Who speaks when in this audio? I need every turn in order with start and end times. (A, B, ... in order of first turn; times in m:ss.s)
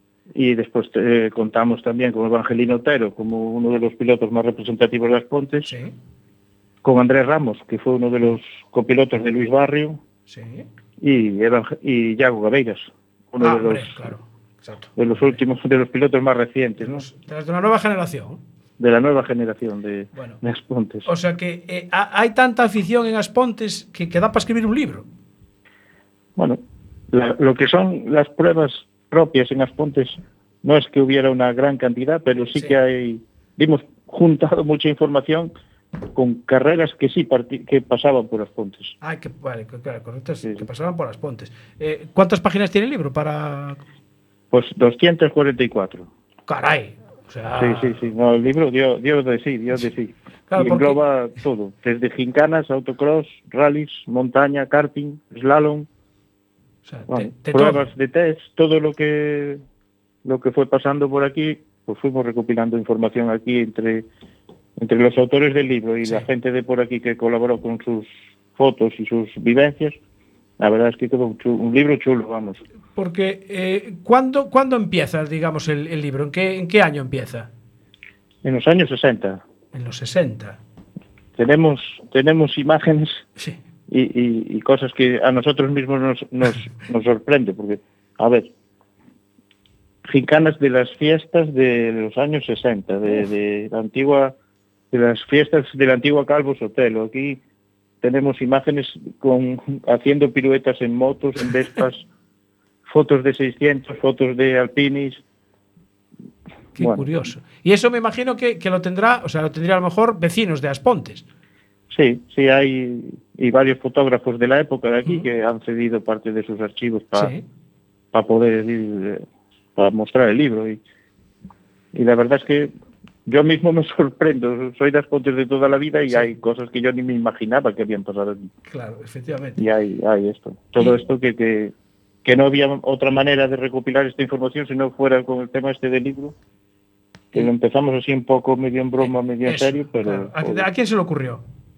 0:00.3-0:05.7 A
0:05.6-0:05.9 B
0:06.8-0:10.0 A
0:10.3-0:10.6 B
0:11.0-0:14.1 A
0:13.4-0:15.4 B
0:15.0-0:17.0 A
0:16.8-0:18.4 B
0:18.8-0:21.1 A
0:20.1-0:20.4 B
0:21.0-0:25.0 B
0:27.1-0:35.5 A
0:36.1-0:38.9 A
0:39.0-0:43.8 B
0:44.5-0:46.1 A
0:46.5-0:48.1 B
0:47.6-0:55.9 A
0:50.5-0:51.0 B
0:56.9-0:57.8 B
0:57.1-0:59.6 A
1:00.2-1:04.1 A
1:04.8-1:10.0 A
1:10.6-1:12.6 A
1:13.0-1:17.5 B
1:18.4-1:19.4 A
1:19.7-1:20.6 B
1:21.4-1:23.2 A
1:23.9-1:28.5 A
1:30.1-1:34.3 A
1:34.9-1:37.4 A
1:38.0-1:42.0 A
1:42.8-1:45.2 A
1:46.8-1:47.1 A
1:46.8-1:51.2 B
1:51.9-1:57.3 A
1:57.1-1:57.4 B
1:58.1-1:59.2 A
1:59.8-2:00.8 A
2:01.9-2:02.7 A
2:03.2-2:08.5 A
2:08.7-2:09.6 B
2:09.6-2:11.7 A
2:12.2-2:16.3 A
2:17.3-2:20.6 A
2:19.0-2:21.4 B